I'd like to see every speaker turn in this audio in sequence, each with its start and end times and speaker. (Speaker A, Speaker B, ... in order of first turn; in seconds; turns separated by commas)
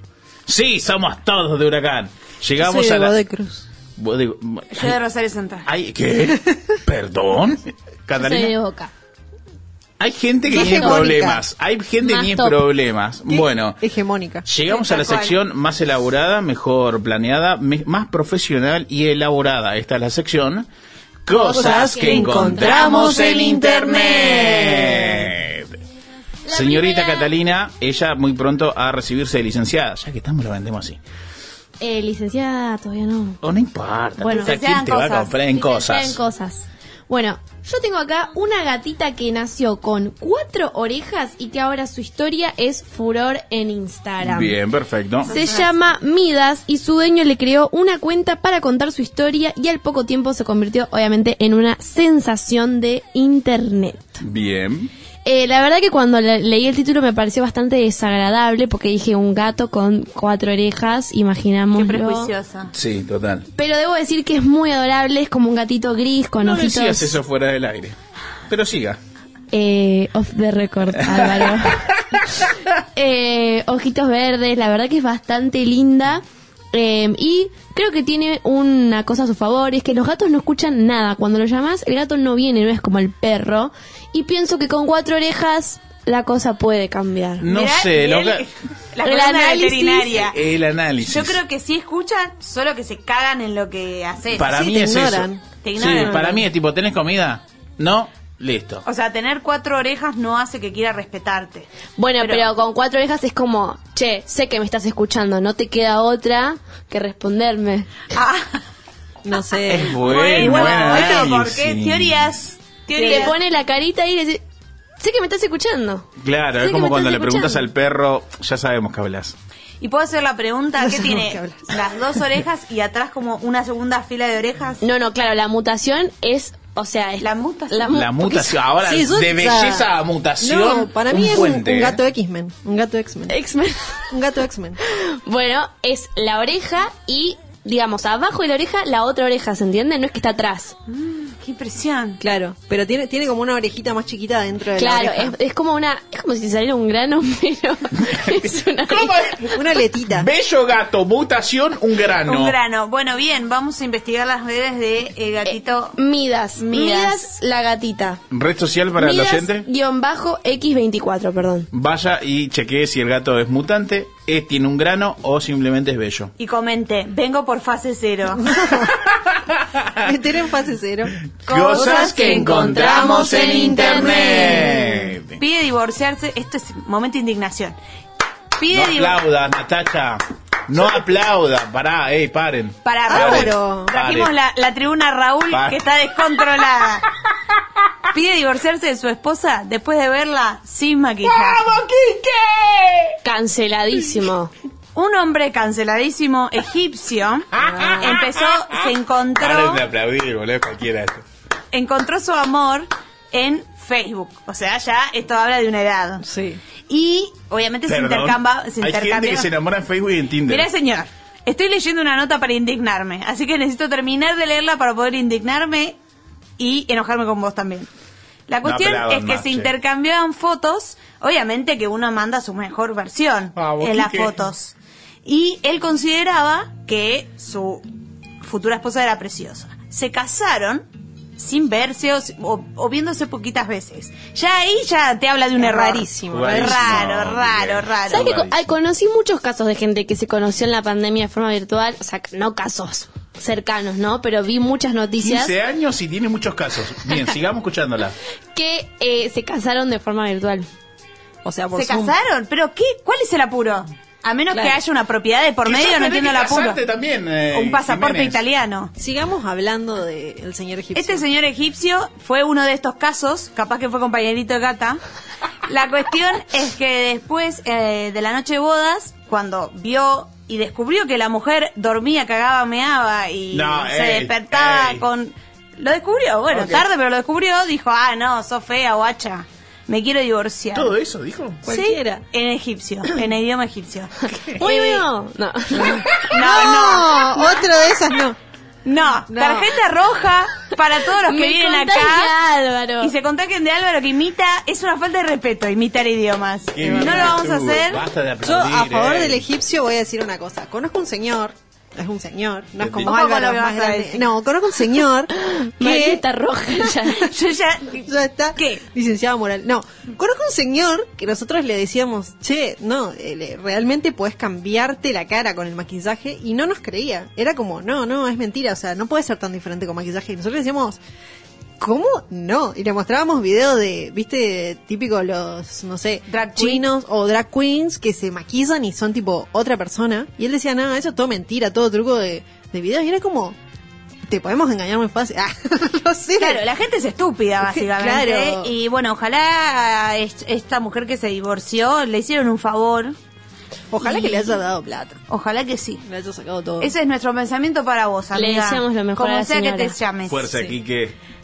Speaker A: 0.5-3.1, Speaker B: 2.6-3.6, Speaker A: 4.0-5.0, Speaker C: 4.7-5.7, Speaker A: 5.7-8.5, Speaker D: 8.2-8.9, Speaker A: 10.0-13.8, Speaker B: 10.5-11.4, Speaker D: 10.5-11.1, Speaker D: 12.0-12.6, Speaker B: 13.3-14.4, Speaker A: 14.4-20.7, Speaker C: 14.7-15.4, Speaker A: 21.2-25.8, Speaker D: 21.3-23.0, Speaker B: 21.5-23.4, Speaker C: 22.5-25.2, Speaker D: 26.4-27.3, Speaker A: 26.5-31.0, Speaker D: 31.8-33.4, Speaker A: 33.4-36.2, Speaker D: 34.2-34.6, Speaker C: 34.3-35.4, Speaker D: 35.5-44.6, Speaker A: 44.2-45.3, Speaker D: 45.2-54.2, Speaker C: 45.3-45.7, Speaker A: 54.2-54.9, Speaker D: 55.2-62.3, Speaker C: 61.7-62.7, Speaker A: 62.7-63.5, Speaker D: 63.5-67.2, Speaker A: 66.4-68.0, Speaker A: 68.5-69.0, Speaker D: 69.5-72.2, Speaker A: 71.1-71.9, Speaker D: 72.9-87.5, Speaker A: 87.4-88.4, Speaker C: 87.5-90.4, Speaker D: 89.0-90.1, Speaker A: 90.1-91.4, Speaker C: 91.0-94.5, Speaker A: 94.3-98.8, Speaker B: 94.5-96.5, Speaker C: 95.6-96.3, Speaker C: 98.8-101.7, Speaker D: 102.0-107.9, Speaker C: 102.2-102.5, Speaker C: 108.1-108.6, Speaker B: 109.2-110.8, Speaker A: 109.7-112.3, Speaker C: 109.9-113.4, Speaker B: 113.0-113.3, Speaker D: 113.0-114.4, Speaker D: 115.0-117.7, Speaker A: 116.2-119.3, Speaker C: 119.8-124.8, Speaker B: 120.8-122.2, Speaker D: 124.8-128.6, Speaker C: 127.2-128.0, Speaker A: 127.9-132.0, Speaker B: 128.8-133.4, Speaker D: 133.3-134.1, Speaker B: 134.1-134.8, Speaker D: 134.8-140.8, Speaker C: 140.9-142.2, Speaker B: 142.2-145.3, Speaker D: 144.7-149.2, Speaker A: 148.0-152.6, Speaker B: 149.5-150.3, Speaker C: 152.2-156.0, Speaker D: 155.4-158.2, Speaker C: 156.6-157.3, Speaker A: 158.3-159.7, Speaker D: 158.9-161.7, Speaker A: 161.7-166.3, Speaker C: 166.4-168.4, Speaker B: 168.3-169.0, Speaker A: 169.1-170.0, Speaker B: 170.0-171.1, Speaker C: 171.5-174.8, Speaker A: 171.5-175.4, Speaker B: 171.7-172.2, Speaker D: 172.5-175.1, Speaker C: 175.4-177.8, Speaker C: 178.6-179.2, Speaker A: 178.7-184.3, Speaker C: 182.8-187.1, Speaker B: 183.1-183.9, Speaker A: 185.5-185.8, Speaker C: 188.1-191.6, Speaker A: 191.2-193.2, Speaker D: 193.2-194.5, Speaker C: 194.9-199.8, Speaker A: 197.6-198.2, Speaker B: 197.6-198.0, Speaker A: 199.4-201.2, Speaker C: 201.7-206.2, Speaker B: 206.2-206.6, Speaker C: 206.9-209.5, Speaker A: 207.9-210.7, Speaker C: 210.4-216.0, Speaker C: 216.6-217.9, Speaker C: 218.5-227.8, Speaker A: 218.6-219.7, Speaker A: 223.6-224.3, Speaker C: 228.4-238.3, Speaker B: 235.6-237.0, Speaker A: 236.3-238.7, Speaker D: 238.1-245.5, Speaker A: 245.2-248.1, Speaker D: 248.5-250.7, Speaker B: 251.4-252.1, Speaker C: 251.7-256.8, Speaker B: 254.5-254.8, Speaker A: 255.6-258.4, Speaker C: 257.5-258.9, Speaker B: 259.0-261.3, Speaker C: 260.9-265.0, Speaker C: 265.7-280.9, Speaker A: 273.5-275.0, Speaker A: 276.5-276.8, Speaker A: 280.7-281.6, Speaker B: 281.6-282.2, Speaker C: 281.7-285.0, Speaker D: 284.5-286.1, Speaker B: 285.7-288.4, Speaker C: 286.3-287.5, Speaker C: 288.8-292.3, Speaker B: 289.3-289.8, Speaker D: 291.2-293.1, Speaker C: 293.0-298.0, Speaker A: 296.7-299.4, Speaker B: 296.8-297.4, Speaker B: 298.4-307.2, Speaker A: 302.8-303.1, Speaker C: 303.0-304.3, Speaker D: 305.3-307.3, Speaker C: 307.2-308.8, Speaker B: 308.1-321.0, Speaker B: 321.8-333.6, Speaker C: 326.3-326.9, Speaker B: 334.3-336.6, Speaker C: 336.4-343.1, Speaker B: 337.6-338.7, Speaker B: 343.9-345.2, Speaker C: 345.3-346.0, Speaker B: 346.0-346.9, Speaker C: 346.8-350.5, Speaker D: 348.3-349.9, Speaker A: 350.3-351.1